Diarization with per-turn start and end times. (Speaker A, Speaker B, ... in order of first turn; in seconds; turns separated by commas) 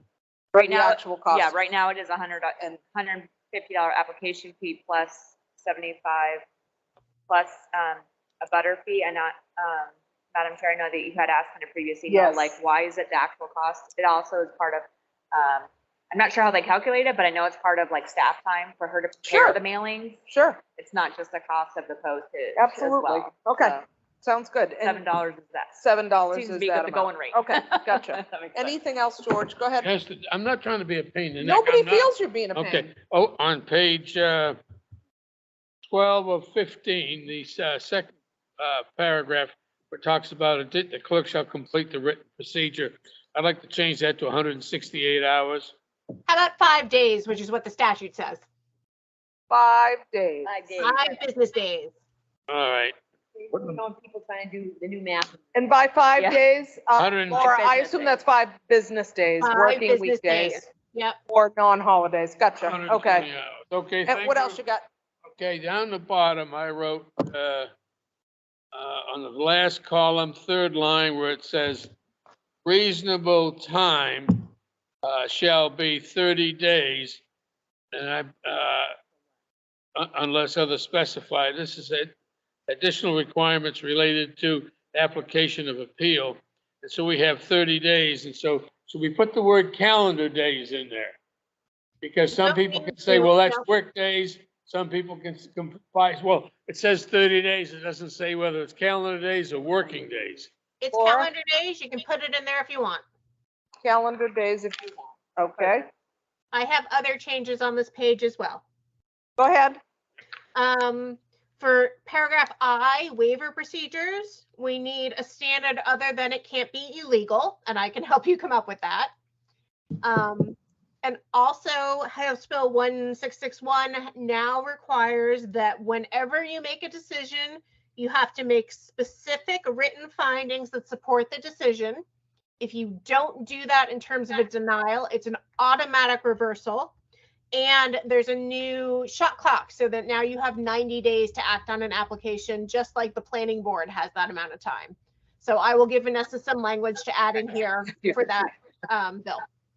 Speaker A: 0.5-1.5, Speaker B: 0.6-6.4, Speaker B: 7.3-20.2, Speaker A: 12.1-12.6, Speaker A: 19.2-19.6, Speaker A: 20.3-20.6, Speaker B: 20.8-23.8, Speaker A: 22.6-25.0, Speaker B: 24.8-25.8, Speaker A: 25.8-29.9, Speaker B: 26.3-28.8, Speaker C: 29.8-34.6, Speaker A: 31.4-32.9, Speaker C: 35.9-45.7, Speaker D: 46.3-48.4, Speaker A: 49.5-50.5, Speaker E: 50.4-51.2, Speaker D: 50.8-51.9, Speaker C: 52.5-53.0, Speaker E: 53.4-55.5, Speaker A: 55.5-60.6, Speaker C: 57.0-57.5, Speaker B: 57.4-58.1, Speaker D: 59.4-61.2, Speaker A: 61.3-63.3, Speaker C: 62.6-64.6, Speaker A: 64.0-64.8, Speaker C: 65.3-67.7, Speaker C: 68.7-71.9, Speaker C: 72.6-74.5, Speaker C: 75.0-77.2, Speaker C: 77.9-78.9, Speaker C: 80.0-82.1, Speaker C: 82.7-91.2, Speaker C: 92.0-100.5, Speaker D: 92.3-93.7, Speaker D: 100.8-103.0, Speaker A: 100.9-101.3, Speaker A: 103.8-105.9, Speaker D: 106.5-108.6, Speaker A: 109.4-109.8, Speaker D: 110.5-119.1, Speaker D: 120.0-132.0, Speaker D: 132.6-136.9, Speaker D: 137.5-149.4